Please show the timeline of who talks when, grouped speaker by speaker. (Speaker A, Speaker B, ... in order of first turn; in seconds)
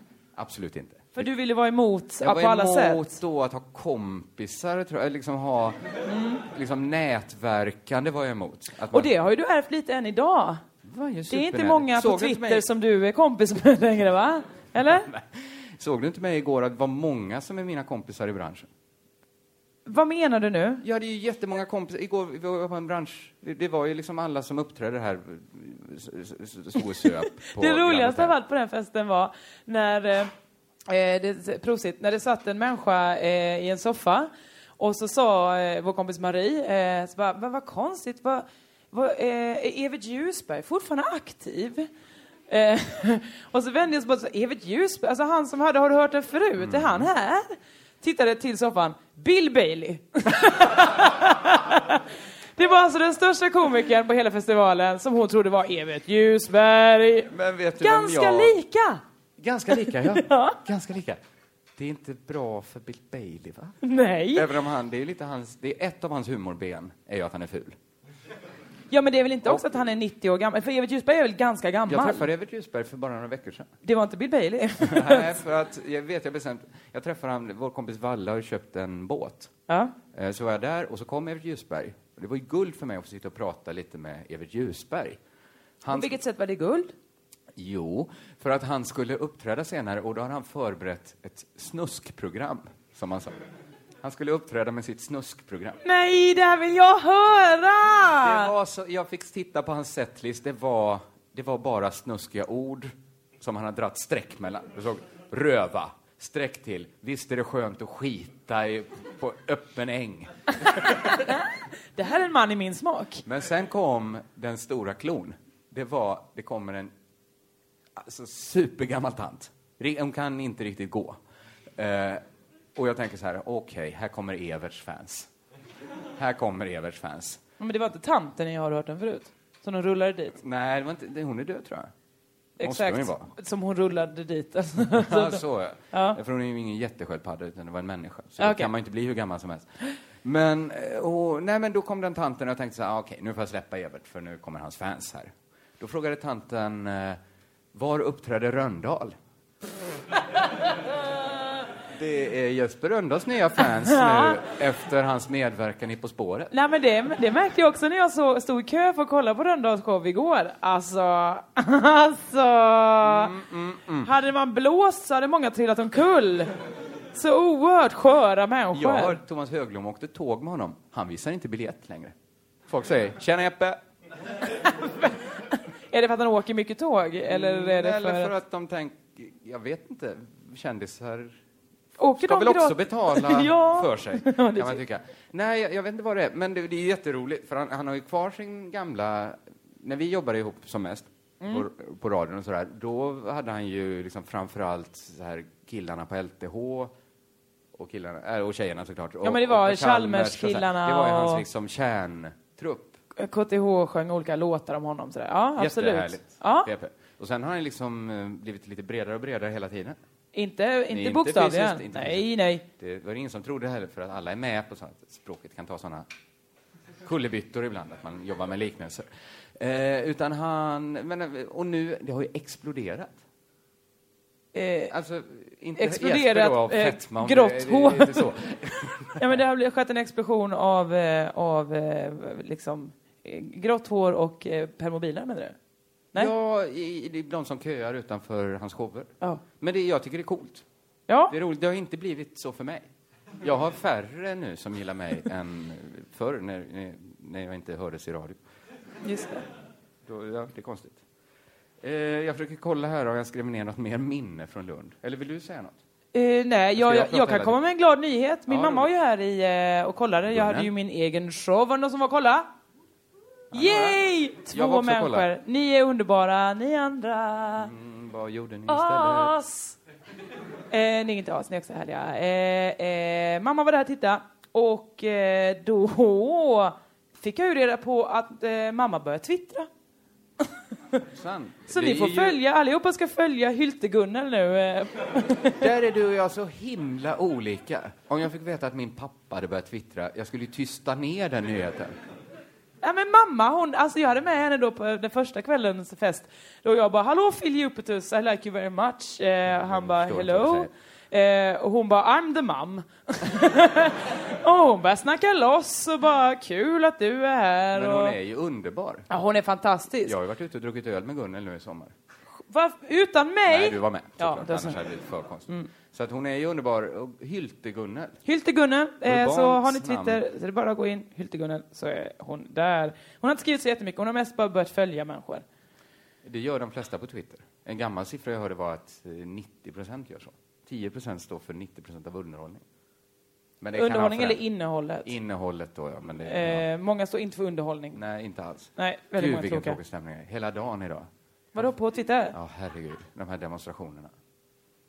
Speaker A: 0.3-1.3, 2.2-5.8, 6.4-9.1, 10.8-12.7, 14.9-18.7, 20.8-28.4, 46.6-47.1, 57.3-58.6, 59.4-61.2, 61.8-63.8, 64.3-67.8, 69.4-69.8, 71.9-73.7, 74.8-79.5, 80.1-85.2, 85.8-86.2, 87.5-93.4, 94.0-95.8, 98.2-110.3, 113.2-116.9, 118.0-121.2, 121.8-122.2, 122.7-125.3, 126.2-127.4, 130.4-131.9, 132.6-133.3, 134.9-147.2, 147.7-149.1, 151.9-156.5, 163.0-164.1, 168.7-172.1, 172.7-173.8, 177.2-181.4, 182.2-196.9, 197.7-203.0, 205.6-210.0, 210.9-216.1, 217.0-223.2, 224.9-229.3, 236.1-240.6, 241.3-242.9, 243.4-248.4, 250.1-251.0, 251.8-255.8, 256.8-257.6, 258.5-258.9, 260.2-260.7, 263.5-265.3, 267.6-269.4, 281.1-282.4, 285.6-291.9, 299.4-300.7, 307.7-309.1, 310.0-311.9, 313.5-318.2, 319.0-320.2, 326.2-332.6, 333.6-334.4, 335.0-336.6, 337.9-341.7, 342.3-344.1
Speaker B: 1.2-3.1, 6.1-6.4, 8.9-10.6, 11.3-15.1, 19.9-20.8, 27.4-30.3, 30.9-41.9, 42.5-52.0, 52.6-59.0, 59.9-60.6, 63.8-64.5, 68.9-72.3, 73.8-75.3, 79.7-79.9, 85.9-86.9, 95.8-98.5, 110.7-111.4, 112.0-113.2, 127.6-130.4, 132.6-136.2, 138.4-138.7, 153.9-154.4, 156.5-163.3, 164.0-166.5, 167.1-169.2, 174.6-178.3, 182.0-184.8, 191.4-191.7, 199.2-201.4, 203.1-206.7, 210.3-212.6, 224.5-224.9, 225.8-228.2, 229.2-235.5, 241.1-241.3, 249.0-249.4, 256.1-262.5, 263.5-267.7, 268.7-269.8, 270.7-279.7, 281.7-285.6, 292.8-308.1, 309.1-310.1, 312.5-314.8, 318.2-325.4, 333.7-335.1, 336.2-338.0, 338.8-339.8, 341.5-342.3